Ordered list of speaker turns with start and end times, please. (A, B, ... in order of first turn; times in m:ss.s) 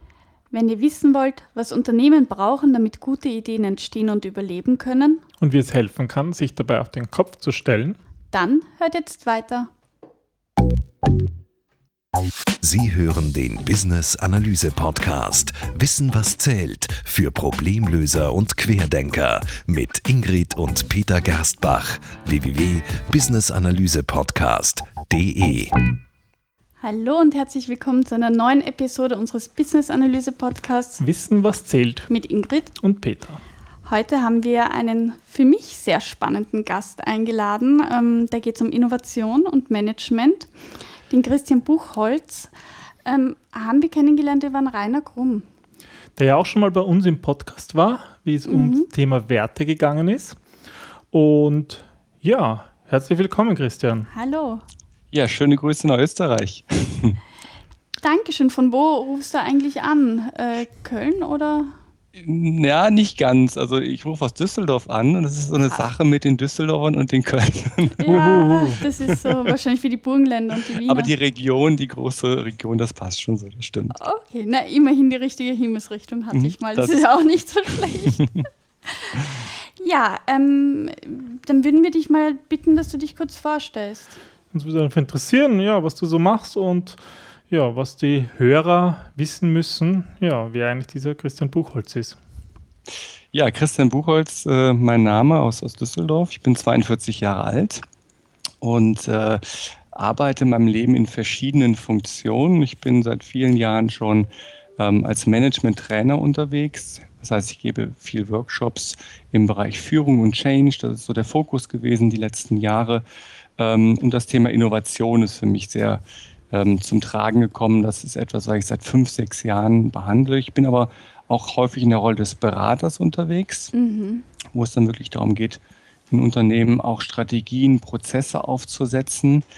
0:00.5-0:05.2 A
0:05.4-0:08.0 B
0:08.3-0:09.7 A
0:12.6-0:25.8 C
0:26.8-0:31.0 A
0:31.0-0:32.1 B
0:32.1-0:32.7 A
0:32.8-0:33.4 B
0:33.9-0:40.5 A
0:41.1-0:42.5 A
0:43.1-0:45.5 A
0:46.2-0:50.4 B
0:48.5-0:48.9 A
0:51.1-0:54.1 B
0:54.1-0:54.6 A
0:55.1-0:57.2 D
0:58.0-1:01.7 A
1:02.2-1:09.5 D
1:08.0-1:11.1 A
1:08.1-1:08.8 B
1:10.7-1:14.0 D
1:13.9-1:18.3 A
1:16.3-1:17.0 D
1:18.0-1:18.5 D
1:18.9-1:19.2 A
1:19.8-1:24.2 A
1:24.5-1:32.2 B
1:33.3-1:37.8 D
1:38.6-1:53.0 D
1:53.6-2:03.7 D
2:03.7-2:04.3 A
2:04.5-2:09.4 D